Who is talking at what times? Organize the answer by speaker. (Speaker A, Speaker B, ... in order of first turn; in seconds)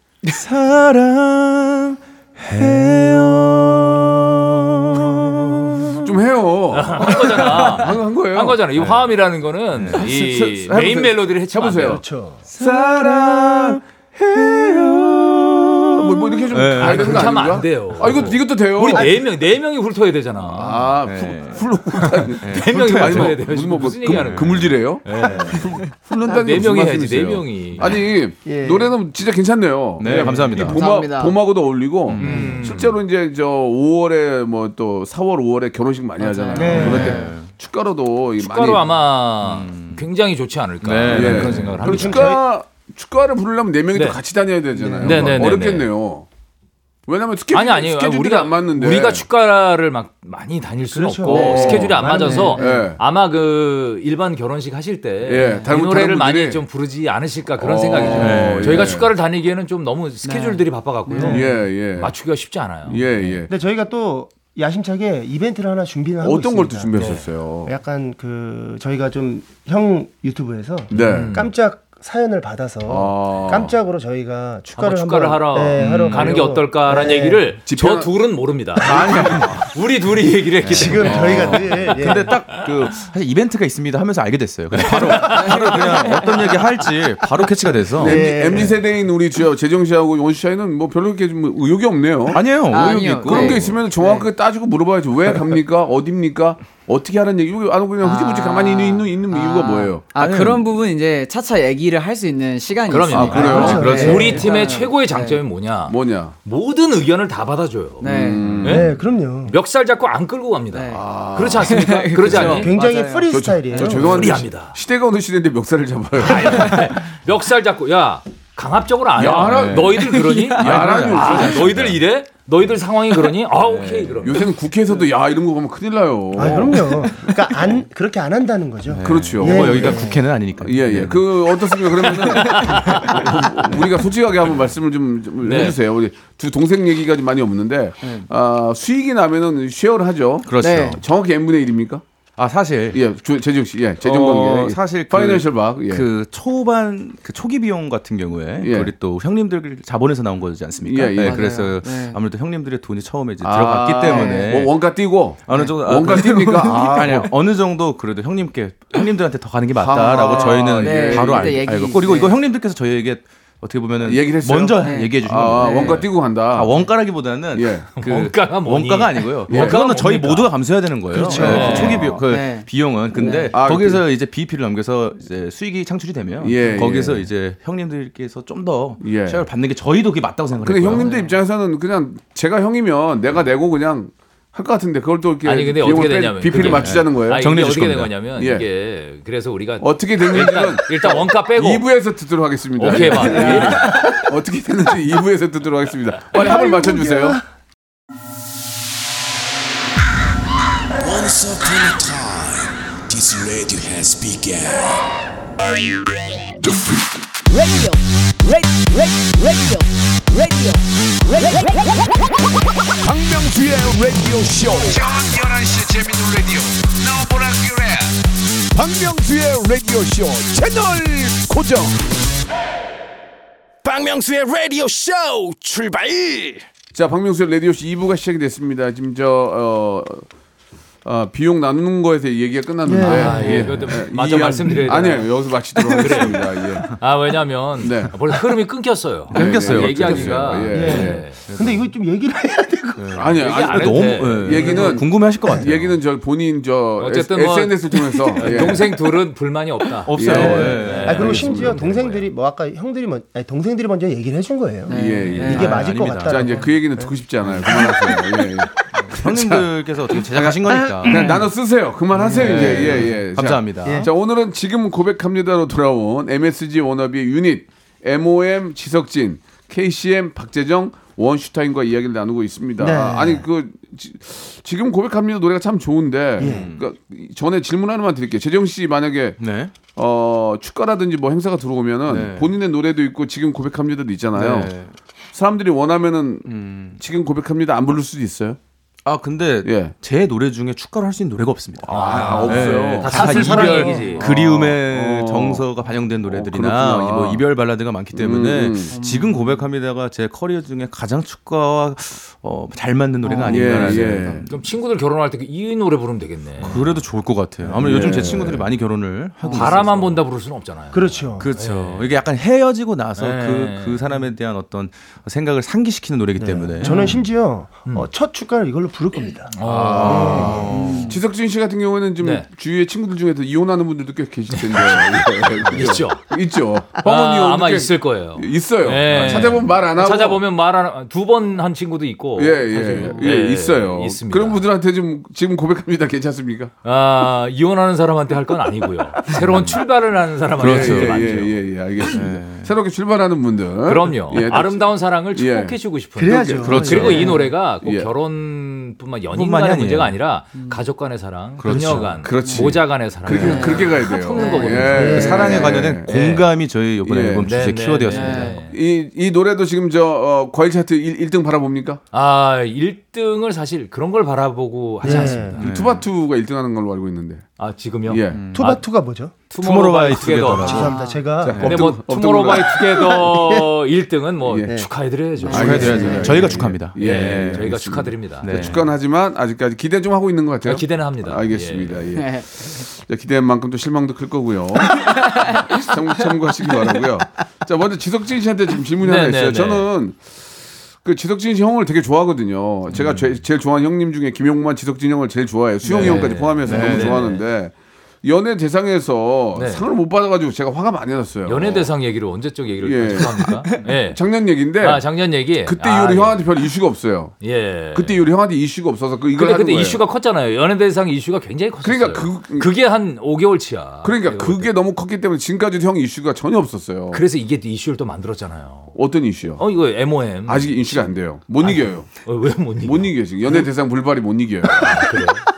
Speaker A: 0.2-6.1, 7.4-7.7, 8.8-9.1, 9.7-10.1, 12.5-17.4, 21.0-21.6, 22.4-23.4, 24.1-24.7, 30.0-30.8, 32.1-32.6, 36.7-37.5, 39.4-40.0, 40.8-41.9, 58.1-59.0, 75.8-76.4, 78.8-79.5, 80.6-88.7, 92.3-93.8, 100.2-100.7, 103.1-104.4, 119.4-120.0, 120.5-122.0, 123.6-124.3, 128.8-131.3, 132.0-133.3, 140.4-141.0, 142.4-143.0, 144.0-154.7, 155.5-181.1, 186.5-188.1, 233.4-233.7, 239.3-241.9, 243.0-246.0, 250.1-251.5, 255.4-256.7, 258.9-261.3, 262.2-264.1, 276.4-276.8, 279.4-279.7, 282.1-282.5, 284.3-284.9, 286.4-287.0, 289.0-304.6, 306.6-310.2, 311.4-317.1, 319.7-321.2, 329.1-329.6, 339.3-339.8, 340.6-341.3, 342.0-342.7, 346.6-347.4, 349.3-350.2, 351.6-352.3, 354.9-358.6, 365.1-366.0, 368.3-368.6, 369.6-371.8, 375.5-378.9, 395.9-397.3
Speaker B: 2.6-3.5, 5.0-5.9, 11.8-12.4, 25.2-25.6, 28.4-28.9, 32.2-32.6, 36.5-37.2, 41.8-42.4, 44.8-45.5, 50.9-52.8, 61.1-61.5, 63.5-77.5, 78.9-79.4, 80.6-82.5, 88.0-88.8, 103.3-104.5, 108.6-109.5, 112.4-114.5, 126.3-130.2, 171.1-171.9, 193.9-194.1, 196.3-197.4, 232.8-233.9, 240.7-243.3, 244.6-245.7, 250.2-258.2, 260.9-261.4, 262.3-263.1, 263.8-264.1, 272.8-273.4, 276.4-276.7, 293.1-294.1, 303.2-303.9, 307.6-308.5, 309.4-309.8, 310.9-311.5, 316.4-321.0, 346.2-347.5, 354.8-355.7, 365.0-365.6, 368.5-369.3, 370.5-371.8, 372.8-373.7, 374.6-374.9, 375.4-376.6
Speaker C: 6.0-8.6, 9.9-12.0, 12.6-15.0, 15.9-19.1, 20.5-38.9, 41.1-46.2, 47.1-49.2, 51.3-53.0, 55.2-56.6, 57.6-59.1, 61.3-62.1, 62.9-63.5, 66.2-67.7, 70.9-71.4, 72.8-73.7, 77.7-78.1, 78.8-79.7, 81.0-81.9, 88.0-100.0, 103.3-104.0, 105.9-106.3, 108.0-108.9, 110.9-112.7, 113.3-116.8, 119.2-121.8, 124.2-127.8, 129.0-142.0, 142.9-146.1, 148.6-148.9, 150.8-151.4, 153.4-157.3, 159.8-161.7, 164.0-166.8, 167.5-167.9, 169.5-169.8, 171.3-172.2, 173.5-174.0, 176.4-177.2, 179.0-179.4, 180.6-187.5, 188.4-188.7, 189.8-197.4, 213.0-215.0, 218.8-219.5, 221.3-221.8, 226.9-230.2, 231.0-236.9, 237.8-238.1, 239.3-241.3, 243.1-248.9, 250.1-251.8, 254.9-259.7, 260.3-279.4, 279.9-284.7, 285.3-288.6, 289.6-289.9, 291.8-295.7, 296.2-297.4, 298.1-298.9, 303.4-304.4, 307.8-308.7, 319.6-330.4, 332.4-336.7, 340.6-347.1, 347.7-348.1, 352.2-356.1, 357.0-357.5, 358.7-362.0, 365.6-367.5, 368.1-368.4, 371.4-373.0, 375.4-390.2, 391.0-401.9, 402.8-405.0, 405.6-407.4, 407.9-410.0, 411.8-412.7, 414.0-417.2, 418.9-419.6, 420.4-422.2, 422.8-425.1
Speaker D: 6.7-12.0, 16.7-20.9, 21.9-25.6, 26.2-27.9, 32.2-32.9, 36.7-37.1, 38.4-42.3, 43.9-44.2, 45.0-45.9, 47.5-63.4, 67.0-67.2, 70.9-71.5, 74.7-82.3, 84.9-86.2, 102.9-112.7, 113.8-114.8, 116.2-124.4, 132.3-133.2, 135.4-135.8, 167.9-170.6, 171.3-172.1, 185.4-191.8, 192.8-194.0, 233.0-235.3, 235.9-241.4, 243.3-244.7, 247.0-252.3, 255.2-255.5, 291.9-294.3, 304.5-306.9, 309.5-312.1, 313.2-314.0, 316.8-317.3, 319.5-320.7, 322.2-322.5, 324.5-326.2, 327.0-334.6, 336.8-341.5, 343.8-356.4, 357.4-358.8, 362.1-365.7, 367.6-368.8, 369.5-371.0, 371.6-378.7, 380.6-382.1, 389.0-389.9, 395.9-397.4, 399.5-399.9, 401.4-404.2, 404.8-406.4, 407.4-408.3, 409.3-414.7, 417.1-418.9, 419.6-423.1, 424.7-425.4
Speaker E: 30.3-31.4, 36.2-37.3, 51.4-52.9, 55.4-55.7, 60.2-61.4, 85.3-86.4, 92.7-94.3, 98.0-105.4, 108.0-108.6, 110.7-111.0, 111.6-114.0, 140.6-141.0, 151.2-152.2, 154.0-154.5, 160.2-162.4, 164.8-166.1, 171.4-173.6, 180.9-181.3, 193.2-193.7, 254.9-255.8, 293.6-294.1, 298.9-299.6, 320.7-321.2, 332.9-333.2, 347.1-347.4, 350.6-350.8, 352.4-352.7, 353.3-355.8, 358.1-358.6, 370.8-371.2, 382.1-382.8, 384.9-385.9
Speaker F: 200.9-205.0, 207.4-212.2, 213.0-218.2, 218.7-221.9, 223.8-226.7